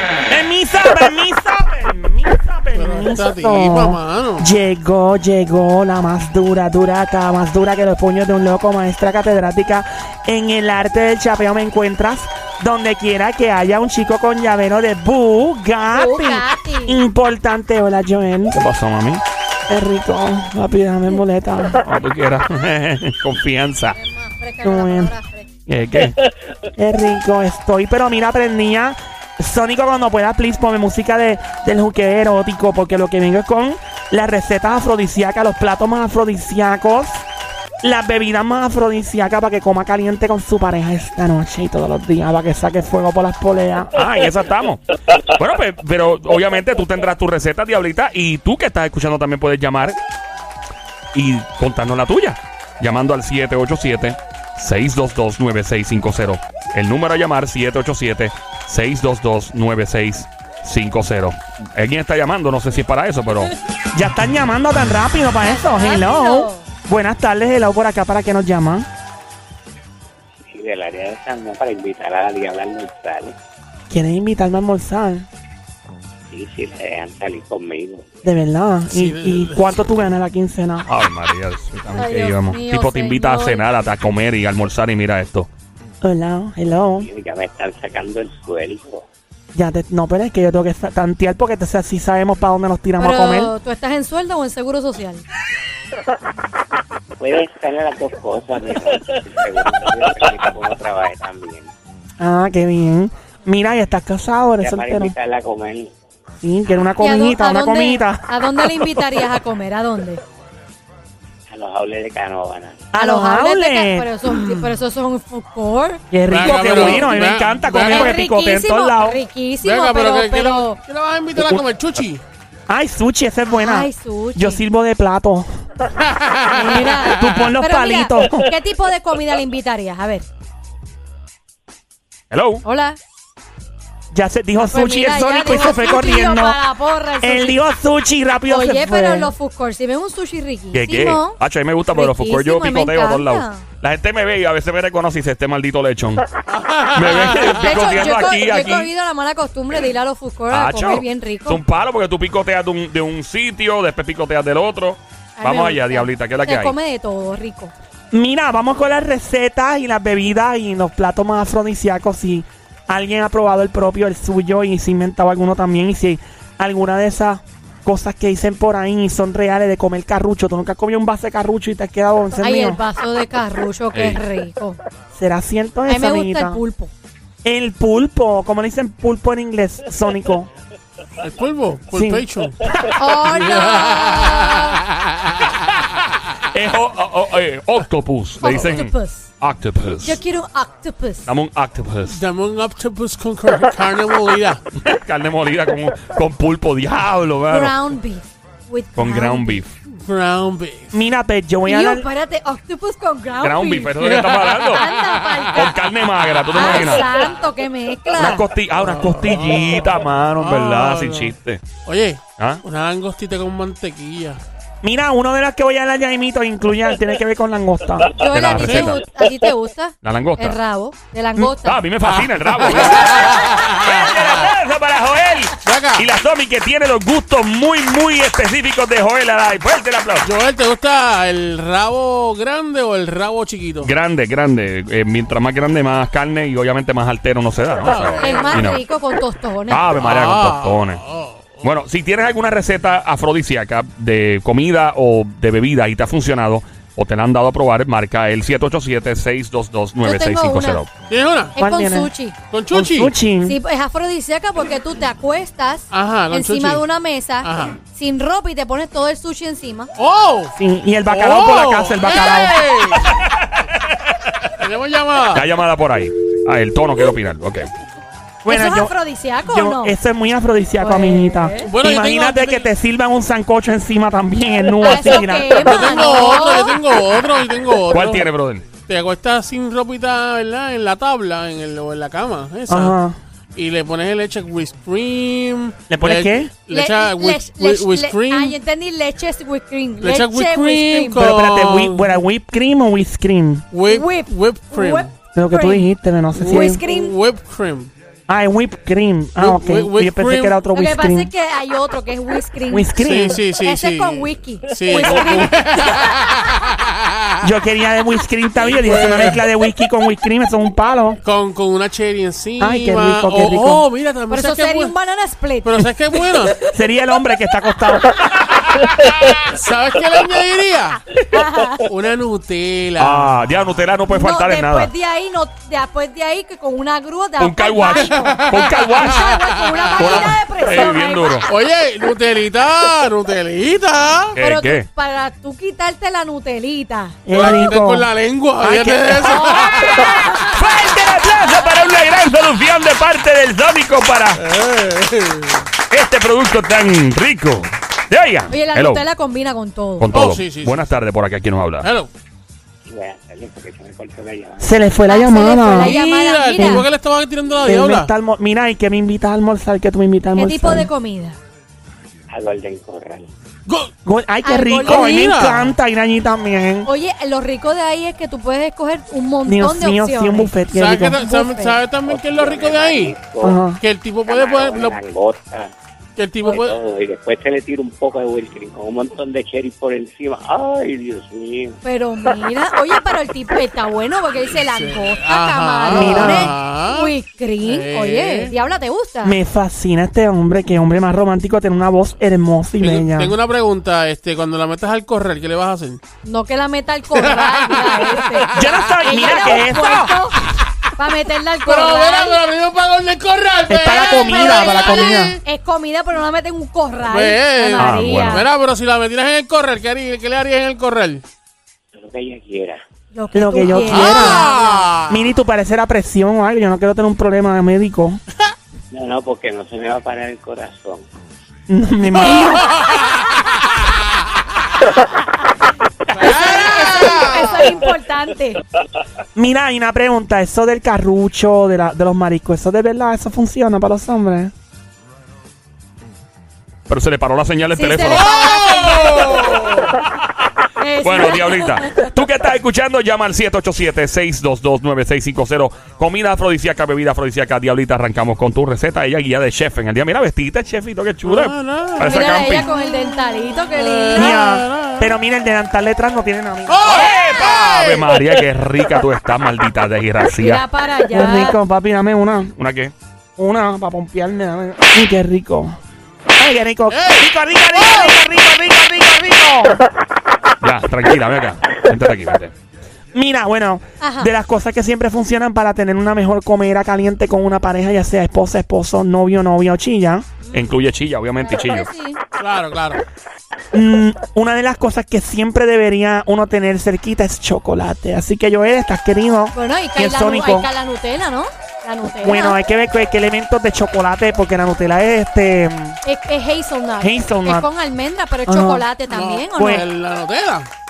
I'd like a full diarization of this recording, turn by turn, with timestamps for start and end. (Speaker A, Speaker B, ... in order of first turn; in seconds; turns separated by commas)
Speaker A: 0.3-18.6, Speaker B: 2.7-4.5, Speaker C: 15.9-17.0, Speaker D: 18.5-19.2, Speaker A: 19.7-21.8, Speaker D: 21.7-24.0, Speaker C: 23.9-25.5, Speaker A: 24.6-25.1, Speaker D: 25.7-26.2, Speaker A: 26.7-37.2, Speaker A: 37.8-44.1, Speaker D: 43.9-50.0, Speaker D: 51.1-63.5, Speaker A: 63.9-68.9, Speaker C: 65.4-66.7, Speaker E: 70.5-73.3, Speaker A: 73.9-75.3, Speaker E: 76.3-78.0, Speaker A: 78.2-80.9, Speaker B: 78.9-79.7, Speaker D: 80.8-85.5, Speaker C: 81.9-83.7, Speaker A: 86.0-87.1, Speaker E: 87.0-89.0, Speaker A: 89.5-93.5, Speaker C: 93.0-95.2, Speaker E: 97.2-101.7, Speaker A: 102.2-105.1, Speaker E: 104.6-105.9, Speaker A: 106.4-108.9, Speaker C: 107.0-110.2, Speaker E: 111.5-112.9, Speaker A: 112.9-114.1, Speaker C: 113.0-116.0, Speaker B: 114.3-114.7, Speaker A: 116.1-119.2, Speaker B: 116.3-118.1, Speaker C: 117.8-120.8, Speaker B: 119.6-122.2, Speaker A: 121.4-121.6, Speaker A: 122.7-125.5, Speaker C: 123.5-124.6, Speaker B: 126.0-126.6, Speaker C: 126.5-130.3, Speaker A: 126.5-128.5, Speaker D: 132.3-132.6, Speaker C: 132.6-133.0, Speaker A: 134.1-136.6, Speaker C: 134.6-137.6, Speaker A: 137.2-139.3, Speaker C: 138.5-143.6, Speaker D: 140.7-146.3, Speaker B: 146.5-148.0, Speaker D: 146.9-148.9, Speaker C: 147.4-151.6, Speaker D: 150.5-156.7, Speaker C: 155.3-157.7, Speaker A: 158.1-172.8, Speaker C: 172.4-174.8, Speaker D: 173.9-174.2, Speaker A: 175.1-176.6, Speaker C: 175.9-176.9, Speaker A: 177.4-180.5, Speaker B: 181.2-182.7, Speaker A: 181.9-182.3, Speaker C: 182.9-184.8, Speaker B: 183.2-185.6, Speaker D: 185.8-190.2, Speaker C: 188.4-189.3, Speaker C: 190.0-191.2, Speaker D: 191.3-192.2, Speaker B: 192.1-194.6, Speaker D: 194.8-197.8, Speaker C: 197.5-199.6, Speaker D: 198.9-199.7, Speaker B: 200.0-200.9, Speaker A: 200.9-202.1, Speaker C: 201.6-203.9, Speaker D: 203.4-204.9, Speaker B: 204.0-205.6, Speaker C: 204.7-205.8, Speaker D: 205.5-207.1, Speaker B: 206.5-206.9, Speaker C: 206.5-208.5, Speaker D: 208.2-211.7, Speaker B: 208.8-214.4, Speaker A: 214.8-218.2, Speaker C: 218.1-221.8, Speaker D: 218.3-219.0, Speaker B: 218.5-219.0, Speaker D: 220.0-220.6, Speaker D: 221.4-230.3, Speaker B: 222.0-224.2, Speaker B: 225.6-226.1, Speaker B: 230.2-233.9, Speaker D: 233.8-238.8, Speaker B: 237.8-238.7, Speaker C: 238.2-239.8, Speaker D: 239.7-241.0, Speaker B: 240.0-241.7, Speaker D: 241.6-250.9, Speaker C: 250.0-250.8, Speaker B: 251.1-251.5, Speaker C: 251.6-252.4, Speaker A: 251.6-252.1, Speaker B: 252.5-253.1, Speaker A: 252.7-253.6, Speaker C: 253.4-259.9, Speaker B: 255.9-256.9, Speaker B: 257.4-257.8, Speaker B: 260.0-260.5, Speaker A: 260.6-262.6, Speaker B: 261.1-263.2, Speaker D: 263.1-263.4, Speaker B: 264.4-265.5, Speaker D: 265.3-267.7, Speaker A: 268.4-275.9, Speaker C: 268.5-269.9, Speaker C: 270.8-271.7, Speaker B: 271.6-272.7, Speaker C: 274.8-276.8, Speaker B: 275.6-282.9, Speaker D: 277.8-278.7, Speaker A: 282.7-283.2, Speaker B: 283.5-288.6, Speaker A: 285.9-286.5, Speaker C: 286.7-291.2, Speaker B: 290.0-292.2, Speaker A: 291.1-293.6, Speaker B: 293.7-295.1, Speaker C: 293.9-295.9, Speaker A: 295.3-296.8, Speaker B: 296.4-297.9, Speaker C: 296.4-297.1, Speaker A: 298.3-301.3, Speaker B: 299.4-300.6, Speaker C: 300.7-303.0, Speaker A: 302.7-303.4, Speaker B: 303.0-307.4, Speaker C: 303.5-306.1, Speaker A: 307.4-311.2, Speaker B: 308.6-309.4, Speaker B: 311.2-314.9, Speaker A: 312.6-313.9, Speaker C: 314.3-315.8, Speaker B: 315.6-316.6, Speaker A: 316.6-318.2, Speaker D: 318.5-318.9, Speaker B: 319.3-321.0, Speaker C: 321.3-321.9, Speaker B: 321.8-323.5, Speaker D: 323.0-324.9, Speaker C: 324.1-331.4, Speaker D: 327.4-329.3, Speaker B: 328.0-330.3, Speaker D: 329.9-331.5, Speaker B: 331.5-334.4, Speaker D: 334.4-334.9, Speaker C: 334.4-337.2, Speaker A: 337.2-339.9, Speaker B: 337.3-340.0, Speaker C: 339.5-340.6, Speaker D: 340.0-344.4, Speaker B: 344.4-345.7, Speaker D: 345.9-349.0, Speaker C: 348.5-350.1, Speaker D: 350.0-351.9, Speaker B: 350.1-350.9, Speaker B: 351.8-352.1, Speaker E: 352.9-354.8, Speaker A: 354.6-356.0, Speaker C: 355.1-356.9, Speaker B: 355.7-358.1, Speaker A: 356.6-356.9, Speaker A: 357.6-360.9, Speaker C: 360.3-361.4, Speaker E: 362.3-363.3, Speaker B: 363.6-363.9, Speaker A: 364.1-366.9, Speaker C: 364.4-365.5, Speaker B: 364.8-365.7, Speaker C: 366.8-370.5, Speaker A: 369.4-371.2, Speaker B: 370.7-373.2, Speaker C: 371.2-371.8, Speaker E: 372.0-373.7, Speaker A: 373.4-373.8, Speaker B: 373.7-375.0, Speaker E: 374.2-375.7, Speaker B: 376.1-376.8, Speaker E: 376.4-381.8, Speaker C: 381.8-389.4, Speaker B: 384.6-388.5, Speaker A: 385.9-386.5, Speaker A: 389.2-393.4, Speaker B: 392.8-396.0, Speaker C: 396.2-402.4, Speaker B: 397.1-398.7, Speaker A: 398.5-400.1, Speaker B: 400.5-400.9, Speaker B: 401.6-405.4, Speaker A: 403.7-405.4, Speaker C: 404.3-408.5, Speaker B: 407.0-411.2, Speaker D: 407.8-408.4, Speaker E: 411.9-412.8, Speaker C: 413.1-414.9, Speaker A: 413.3-414.5, Speaker B: 413.9-415.2, Speaker A: 415.1-418.2, Speaker E: 418.9-421.0, Speaker A: 421.7-422.7, Speaker B: 422.7-423.2, Speaker B: 426.1-427.7, Speaker C: 426.2-428.6, Speaker A: 429.4-434.5, Speaker D: 436.9-438.4, Speaker C: 437.7-439.8, Speaker B: 438.0-439.9, Speaker D: 440.0-440.4, Speaker C: 440.8-442.1, Speaker D: 441.0-452.7, Speaker B: 451.2-455.1, Speaker C: 452.0-454.4, Speaker A: 454.1-457.1, Speaker B: 456.7-458.4, Speaker D: 456.8-460.6, Speaker C: 460.4-461.6, Speaker A: 461.1-462.6, Speaker D: 462.6-462.9, Speaker A: 463.4-465.8, Speaker A: 466.4-469.8, Speaker B: 466.9-468.1, Speaker D: 470.6-472.5, Speaker A: 473.1-480.4, Speaker C: 474.0-474.3, Speaker D: 480.5-481.9, Speaker C: 481.4-482.2, Speaker B: 482.4-483.0, Speaker A: 483.7-490.7, Speaker C: 489.5-492.6, Speaker A: 492.2-496.0, Speaker C: 496.0-499.9, Speaker A: 497.0-497.7, Speaker A: 498.4-498.9, Speaker B: 499.1-500.7, Speaker A: 499.5-499.9